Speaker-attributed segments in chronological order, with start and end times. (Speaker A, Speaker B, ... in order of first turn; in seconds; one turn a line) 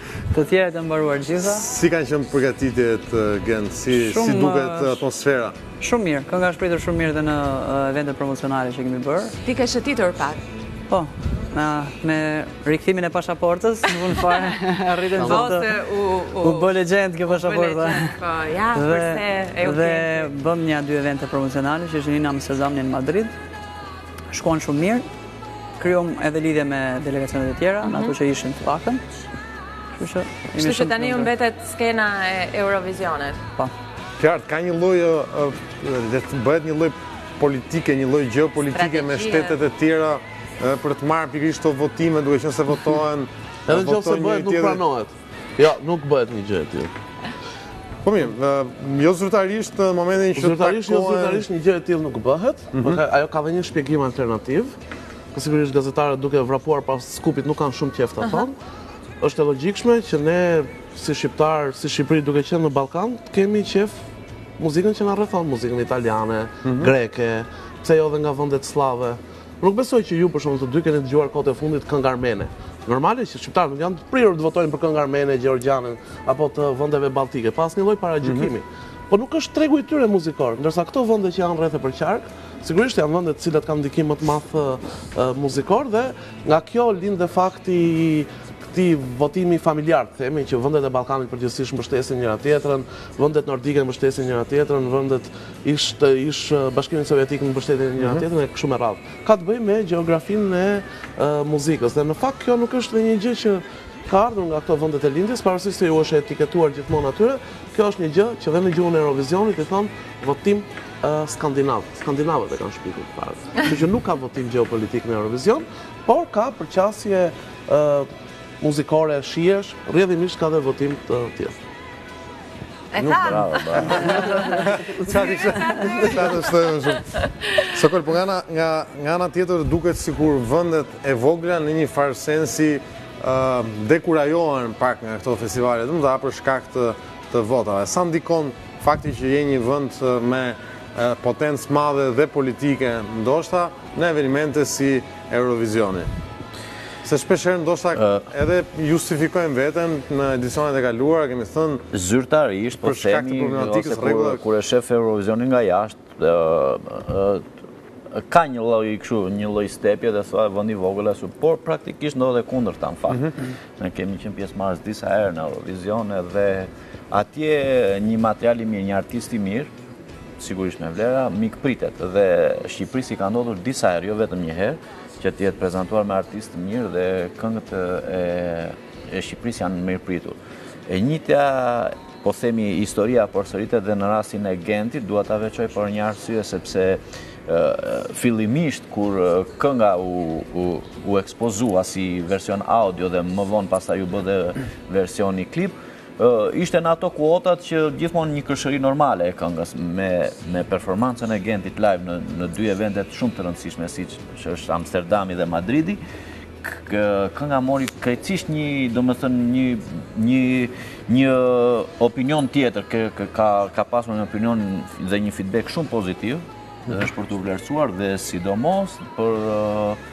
Speaker A: 0.3-1.6
Speaker B: 1.5-5.6
Speaker A: 3.9-5.0
Speaker A: 5.8-9.4
Speaker C: 9.4-10.4
Speaker A: 10.9-15.7
Speaker C: 15.1-20.3
Speaker A: 16.4-18.2
Speaker A: 18.7-23.4
Speaker A: 24.3-25.1
Speaker A: 25.8-29.0
Speaker C: 27.8-28.2
Speaker A: 30.0-31.3
Speaker C: 30.5-33.4
Speaker B: 34.2-44.8
Speaker C: 38.7-39.6
Speaker D: 43.7-46.9
Speaker B: 48.0-51.4
Speaker D: 50.4-54.8
Speaker B: 52.7-53.0
Speaker D: 55.3-58.6
Speaker D: 59.2-63.9
Speaker D: 64.6-118.1
Speaker B: 66.6-66.9
Speaker B: 98.0-98.2
Speaker D: 118.6-121.5
Speaker C: 122.9-124.5
Speaker B: 123.0-127.1
Speaker E: 123.2-124.5
Speaker C: 125.1-126.6
Speaker C: 127.2-127.7
Speaker B: 127.6-146.1
Speaker B: 147.0-151.9
Speaker E: 147.9-148.3
Speaker E: 151.9-157.4
Speaker B: 152.8-154.4
Speaker E: 158.2-169.7
Speaker B: 163.1-163.3
Speaker E: 170.4-206.0
Speaker E: 206.6-220.0